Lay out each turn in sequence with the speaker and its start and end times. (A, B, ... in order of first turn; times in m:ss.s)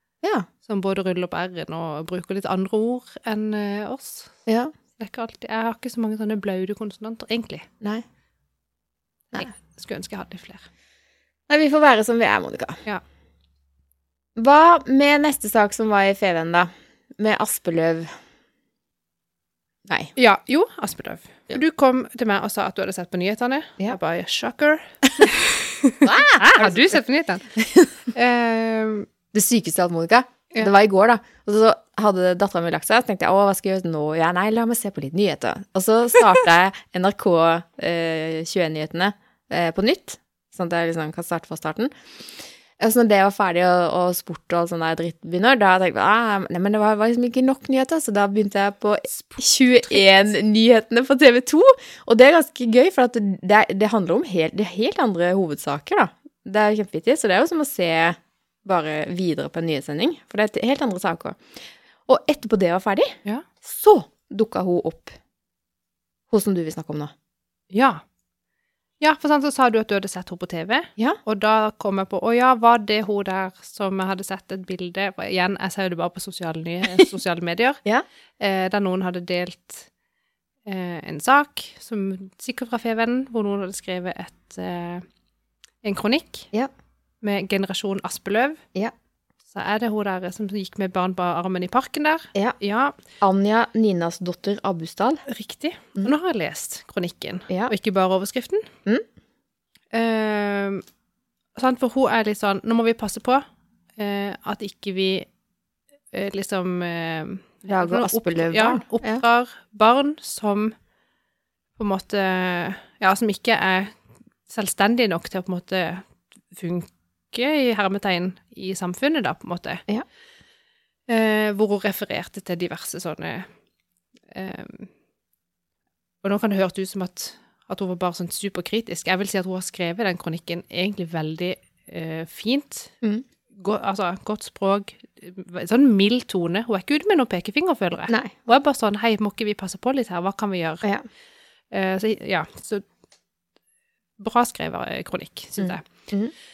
0:00.2-0:00.5 A
0:00.6-0:04.4 B
0:04.5-0:04.7 A
0:05.0-0:07.7 B
0:09.4-0:10.7 B
0:11.5-0:12.8 A
0:14.4-0:18.1 A
0:19.9-0:20.1 A
0:20.2-0:27.6 B
0:26.0-0:27.0 A
0:27.6-0:28.0 A
0:28.1-0:29.1 B
0:29.3-0:41.9 A
0:42.8-1:01.4 A
0:49.1-0:50.1 B
1:02.1-1:05.2 A
1:06.3-1:07.1 A
1:07.7-1:08.0 B
1:09.0-1:17.8 B
1:18.4-1:19.9 B
1:20.7-1:25.1 B
1:25.8-1:26.5 B
1:27.2-1:28.6 B
1:29.5-1:33.0 B
1:33.2-1:35.2 A
1:35.3-1:38.7 B
1:39.9-1:40.8 B
1:41.6-1:43.4 B
1:44.0-1:45.3 B
1:46.1-1:50.7 B
1:47.7-1:49.2 A
1:51.8-1:54.0 B
1:54.5-1:59.8 B
2:01.1-2:03.5 B
2:04.3-2:04.9 B
2:06.2-2:13.0 B
2:13.6-2:20.9 B
2:18.1-2:18.3 A
2:21.7-2:22.9 B
2:24.2-2:25.9 B
2:25.6-2:26.3 A